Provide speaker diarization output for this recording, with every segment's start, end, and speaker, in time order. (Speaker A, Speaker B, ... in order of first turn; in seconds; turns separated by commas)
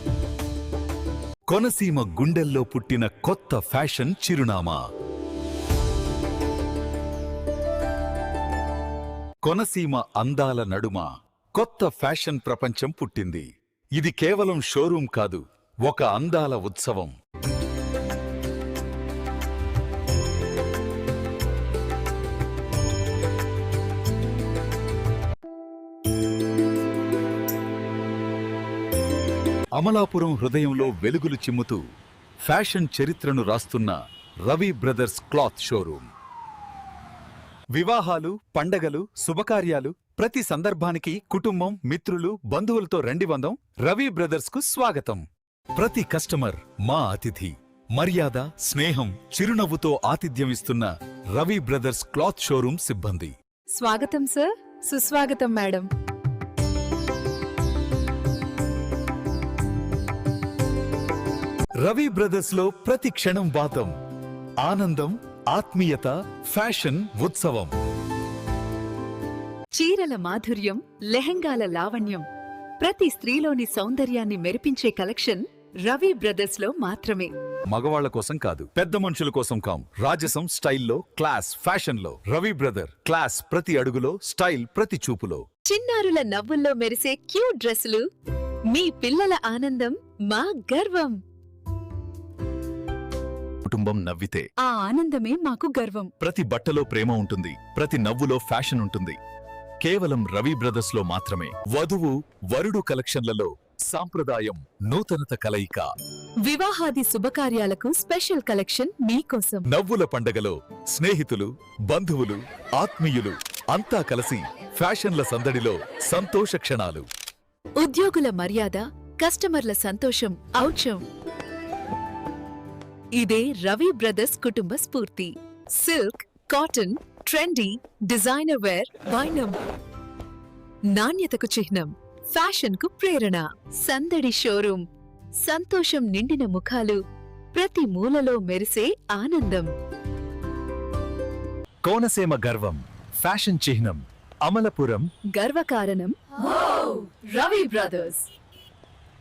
Speaker A: 1.5-4.8, Speaker A: 9.4-17.1, Speaker A: 29.8-31.8, Speaker A: 32.4-36.1, Speaker A: 37.7-53.3, Speaker B: 53.7-55.9, Speaker A: 61.8-64.0, Speaker A: 64.6-67.8, Speaker B: 69.7-72.3, Speaker B: 72.8-77.3, Speaker A: 77.7-85.5, Speaker B: 85.7-88.0, Speaker B: 88.7-91.2, Speaker A: 93.6-94.5, Speaker B: 94.6-96.1, Speaker A: 96.2-99.2, Speaker A: 99.8-105.9, Speaker B: 106.4-109.7, Speaker A: 109.7-117.1, Speaker B: 117.8-121.0, Speaker B: 123.2-129.6, Speaker B: 130.9-134.9, Speaker B: 135.4-137.0, Speaker B: 137.5-139.7, Speaker A: 141.8-145.1, Speaker B: 145.3-148.3